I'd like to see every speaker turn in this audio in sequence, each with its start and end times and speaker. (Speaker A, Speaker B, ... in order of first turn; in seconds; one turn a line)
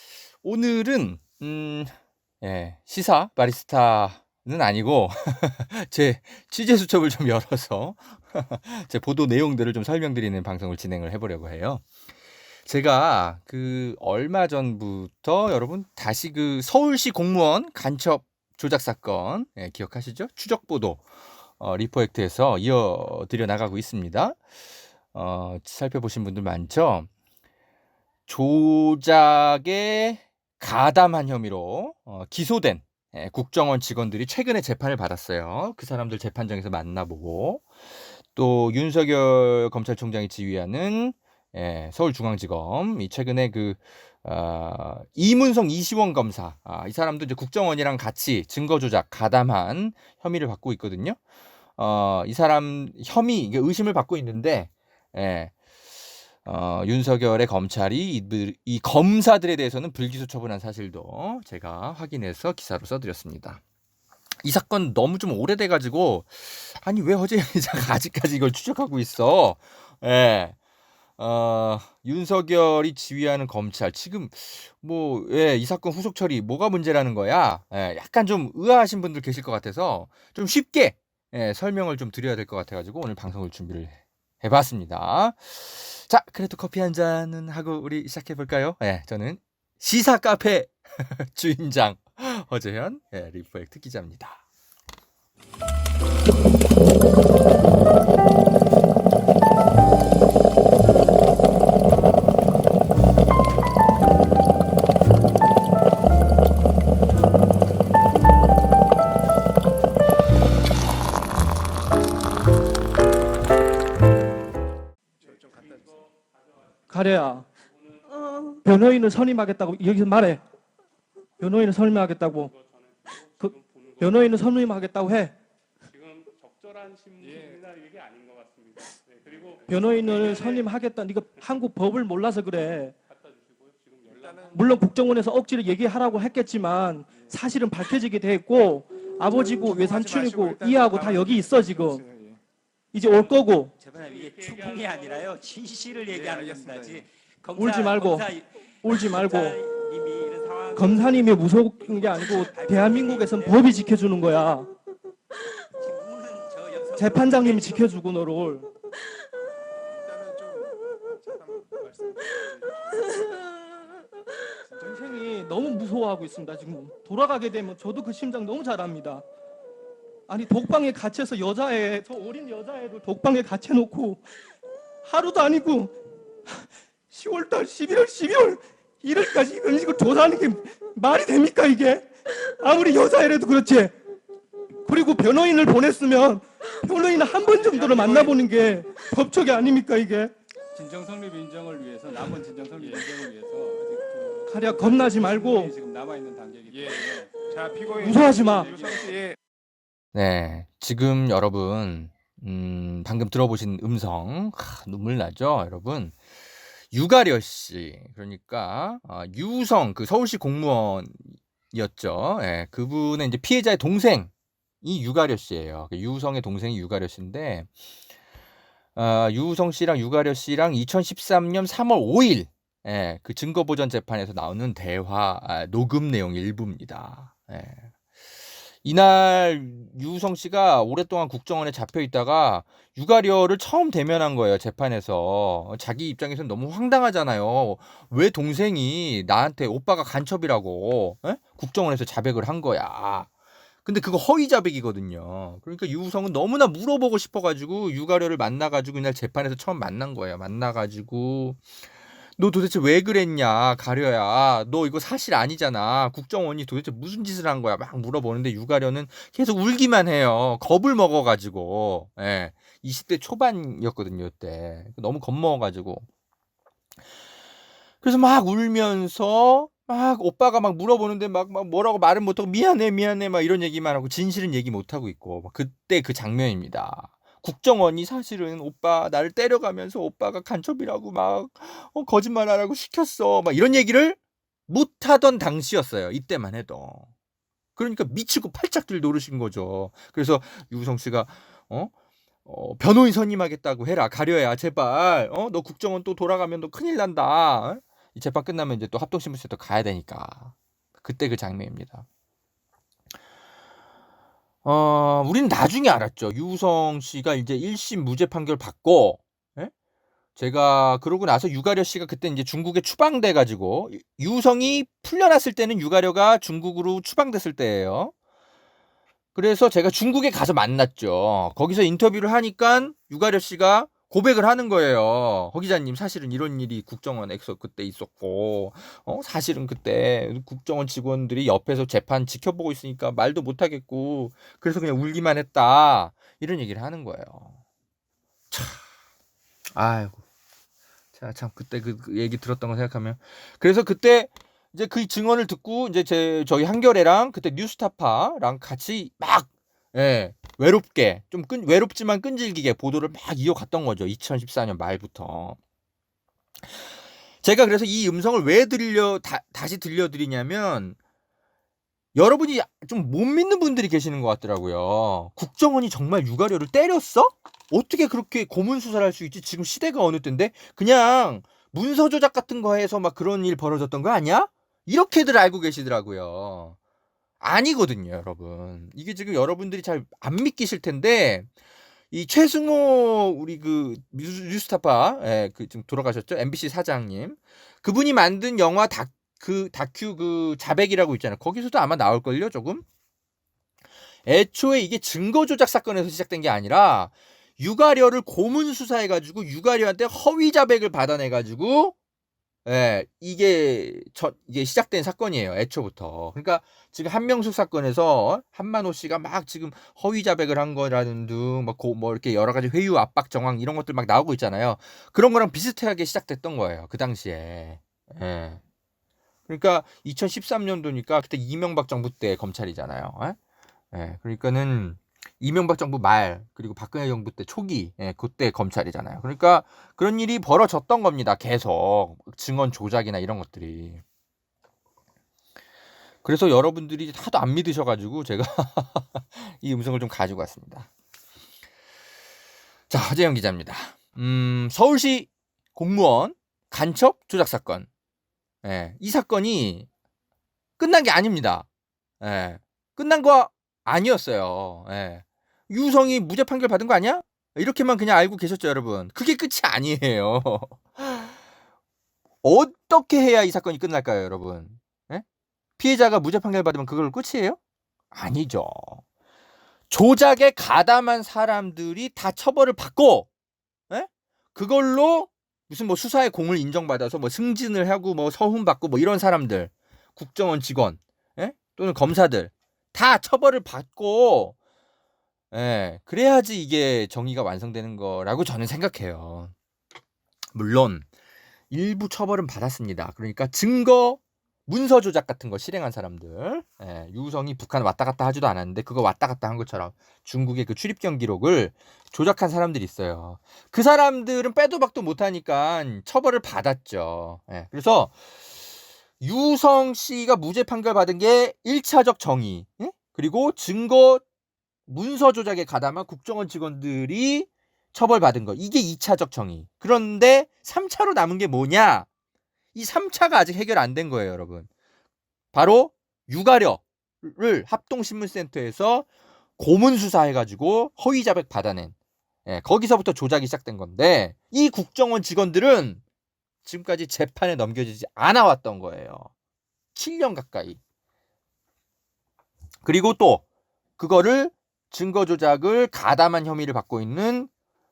Speaker A: 0.4-11.8
Speaker A: 12.7-21.0
Speaker A: 21.6-24.4
Speaker A: 25.1-27.1
Speaker A: 28.3-37.6
Speaker A: 38.3-51.2
Speaker A: 51.8-55.5
Speaker A: 56.4-63.6
Speaker A: 64.4-70.6
Speaker A: 71.2-94.4
Speaker B: 115.2-116.0
Speaker C: 115.2-116.3
Speaker D: 116.9-117.5
Speaker D: 118.6-120.4
Speaker D: 121.4-122.5
Speaker C: 122.5-124.8
Speaker D: 123.4-125.3
Speaker C: 125.9-130.7
Speaker B: 127.2-127.6
Speaker D: 129.7-132.9
Speaker C: 133.2-134.6
Speaker B: 134.1-134.8
Speaker D: 134.5-142.0
Speaker B: 139.5-142.3
Speaker D: 142.9-143.7
Speaker E: 143.8-154.3
Speaker C: 143.9-145.3
Speaker B: 146.1-147.1
Speaker D: 147.6-148.3
Speaker D: 148.8-149.6
Speaker D: 150.8-154.7
Speaker E: 155.8-157.9
Speaker D: 157.0-158.7
Speaker B: 160.1-160.7
Speaker B: 161.5-163.1
Speaker D: 164.8-169.2
Speaker D: 170.3-174.2
Speaker D: 175.0-175.9
Speaker D: 177.1-183.9
Speaker D: 184.8-190.3
Speaker F: 187.6-188.0
Speaker B: 187.9-188.4
Speaker F: 190.7-197.3
Speaker B: 192.1-193.9
Speaker D: 194.5-195.7
Speaker B: 195.0-195.7
Speaker B: 196.7-199.3
Speaker D: 197.9-198.8
Speaker A: 200.1-206.1
Speaker A: 206.9-217.7
Speaker A: 218.9-227.9
Speaker A: 228.8-243.3
Speaker A: 243.8-251.6
Speaker A: 252.4-266.1
Speaker A: 268.0-287.1
Speaker A: 287.8-291.9
Speaker A: 292.4-302.1
Speaker A: 304.6-309.7
Speaker A: 310.4-318.1
Speaker A: 319.3-337.6
Speaker A: 338.5-338.8
Speaker A: 339.8-340.2
Speaker A: 341.1-355.6
Speaker A: 357.4-361.0
Speaker A: 362.1-376.8
Speaker A: 377.4-381.5
Speaker A: 382.1-392.8
Speaker A: 394.2-401.9
Speaker A: 402.6-418.6
Speaker A: 419.5-423.4
Speaker A: 423.9-434.0
Speaker A: 436.2-440.9
Speaker A: 442.9-447.9
Speaker A: 448.6-449.9
Speaker A: 450.8-451.7
Speaker A: 452.2-461.3
Speaker A: 462.4-465.2
Speaker A: 465.8-467.6
Speaker A: 468.1-469.0
Speaker A: 469.9-473.3
Speaker A: 473.9-484.6
Speaker A: 485.5-489.5
Speaker A: 490.5-491.1
Speaker A: 491.7-508.1
Speaker A: 509.2-514.2
Speaker A: 514.9-522.1
Speaker A: 522.7-524.7
Speaker A: 525.5-531.9
Speaker A: 532.5-536.0
Speaker A: 536.6-539.3
Speaker A: 539.9-540.8
Speaker A: 542.8-543.4
Speaker A: 544.0-547.5